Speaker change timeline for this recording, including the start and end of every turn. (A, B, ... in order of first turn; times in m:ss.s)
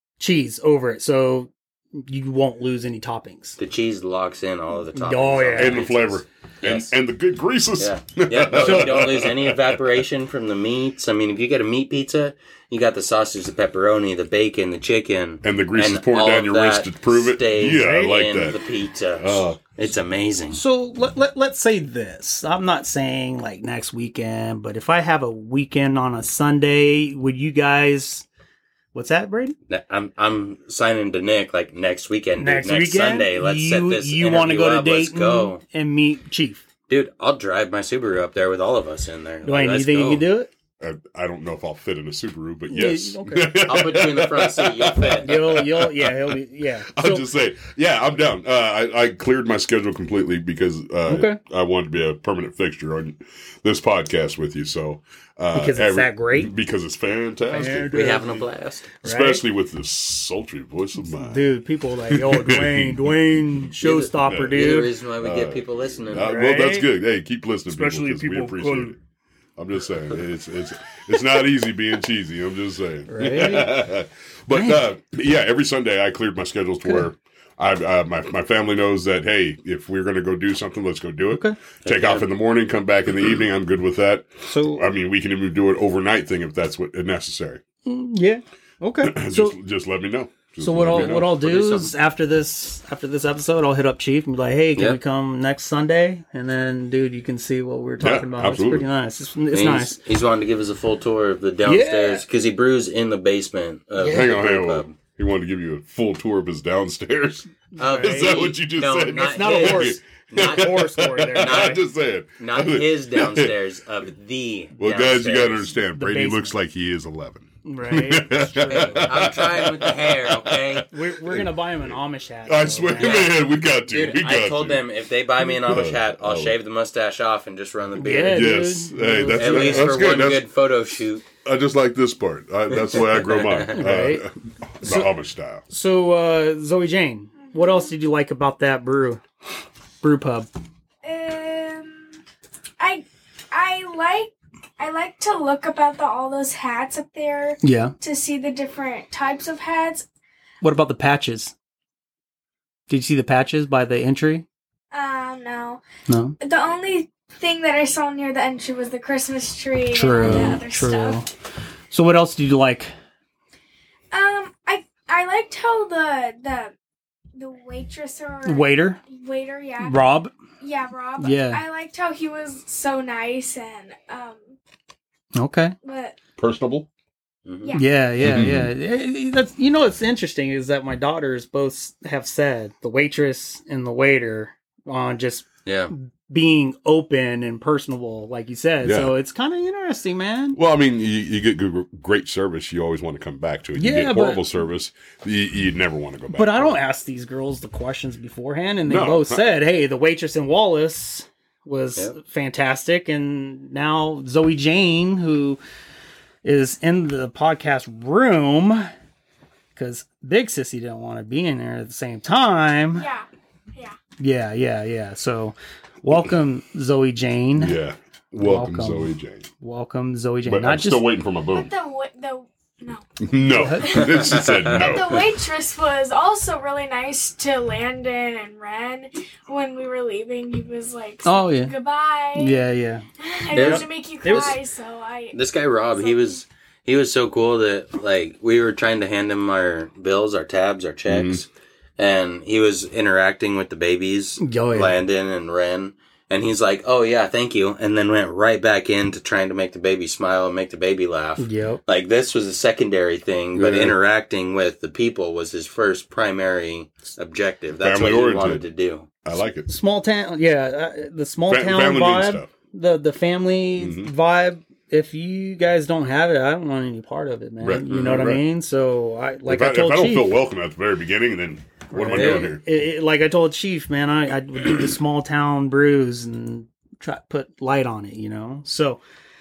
0:00.2-0:03.6 A
0:03.6-0:06.9 B
0:05.0-0:05.8 A
0:05.6-0:09.8 C
0:07.8-0:20.6 B
0:08.6-0:08.9 A
0:15.4-0:18.6 C
0:19.2-0:19.6 C
0:20.5-0:28.3 A
0:28.9-0:29.6 A
0:29.7-0:35.6 B
0:32.4-0:36.6 A
0:36.9-0:40.3 B
0:39.4-0:40.5 A
0:40.8-0:46.4 C
0:42.7-0:43.7 A
0:43.6-0:45.4 B
0:45.2-0:47.2 A
0:46.9-0:58.0 C
0:51.1-0:51.4 A
0:55.5-0:56.5 A
0:57.5-0:58.4 A
0:57.9-0:58.9 B
0:59.0-0:59.4 A
0:59.0-1:01.5 C
1:01.1-1:04.9 A
1:02.1-1:03.1 C
1:03.8-1:06.4 B
1:04.2-1:09.0 C
1:06.2-1:06.9 A
1:07.7-1:08.9 A
1:09.6-1:27.6 C
1:13.1-1:13.8 A
1:14.5-1:14.8 A
1:21.3-1:21.6 A
1:21.8-1:22.3 B
1:24.4-1:24.8 A
1:27.8-1:29.6 A
1:29.0-1:31.4 C
1:30.6-1:40.0 A
1:30.9-1:31.9 B
1:38.0-1:38.9 C
1:39.5-1:45.0 B
1:41.6-1:42.2 A
1:44.0-1:44.3 A
1:44.1-1:53.6 C
1:47.8-1:48.4 A
1:47.8-1:51.8 B
1:49.2-1:51.8 A
1:52.4-1:55.7 B
1:54.8-2:02.0 C
1:55.9-1:56.5 A
1:57.6-1:59.1 A
1:58.7-2:00.9 B
2:00.9-2:03.3 A
2:02.5-2:04.8 C
2:03.0-2:08.6 B
2:05.6-2:06.6 C
2:08.0-2:10.2 A
2:08.3-2:10.4 C
2:09.3-2:11.2 B
2:11.4-2:15.6 C
2:12.9-2:13.7 B
2:13.7-2:14.2 A
2:14.8-2:15.1 A
2:15.7-2:19.2 A
2:17.5-2:17.9 D
2:20.0-2:20.5 A
2:21.0-2:22.1 D
2:22.8-2:30.1 D
2:27.6-2:27.9 A
2:30.6-2:31.5 A
2:32.9-2:34.5 A
2:34.9-2:35.8 D
2:36.1-2:36.4 A
2:36.4-2:41.2 D
2:39.9-2:41.3 A
2:40.2-2:40.6 C
2:41.9-2:42.9 A
2:44.1-2:46.7 D
2:47.4-2:54.6 D
2:48.4-2:49.0 A
2:49.8-2:50.3 A
2:51.2-2:51.6 A
2:55.4-2:55.8 A
2:55.8-2:56.2 D
2:56.4-2:56.9 C
2:57.5-2:57.8 B
2:57.6-2:57.9 D
2:57.7-3:10.6 A
2:58.2-2:58.7 C
3:05.6-3:05.9 B
3:08.8-3:09.1 C
3:10.6-3:16.8 C
3:13.8-3:14.4 A
3:16.3-3:25.6 A
3:18.9-3:19.5 C
3:26.4-3:28.9 A
3:29.8-3:33.1 A
3:33.0-3:34.0 D
3:34.2-3:37.8 A
3:37.6-3:39.5 C
3:38.4-3:41.1 A
3:40.5-3:41.7 C
3:41.5-3:43.1 D
3:43.2-3:45.3 C
3:43.5-3:44.0 A
3:43.8-3:52.6 D
3:43.9-3:45.0 B
3:51.2-3:51.7 A
3:52.3-3:54.6 A
3:53.2-3:55.4 D
3:53.5-3:54.6 B
3:55.3-4:01.5 B
3:56.0-3:56.4 D
4:01.1-4:01.4 C
4:02.0-4:19.1 B
4:04.4-4:04.9 A
4:11.4-4:11.8 A
4:13.6-4:14.0 C
4:17.8-4:18.6 C
4:19.2-4:19.7 C
4:19.7-4:30.3 A
4:21.5-4:22.5 C
4:23.8-4:24.1 C
4:27.6-4:28.4 C
4:27.9-4:28.2 B
4:29.5-4:32.6 C
4:31.9-4:39.0 A
4:32.1-4:32.5 B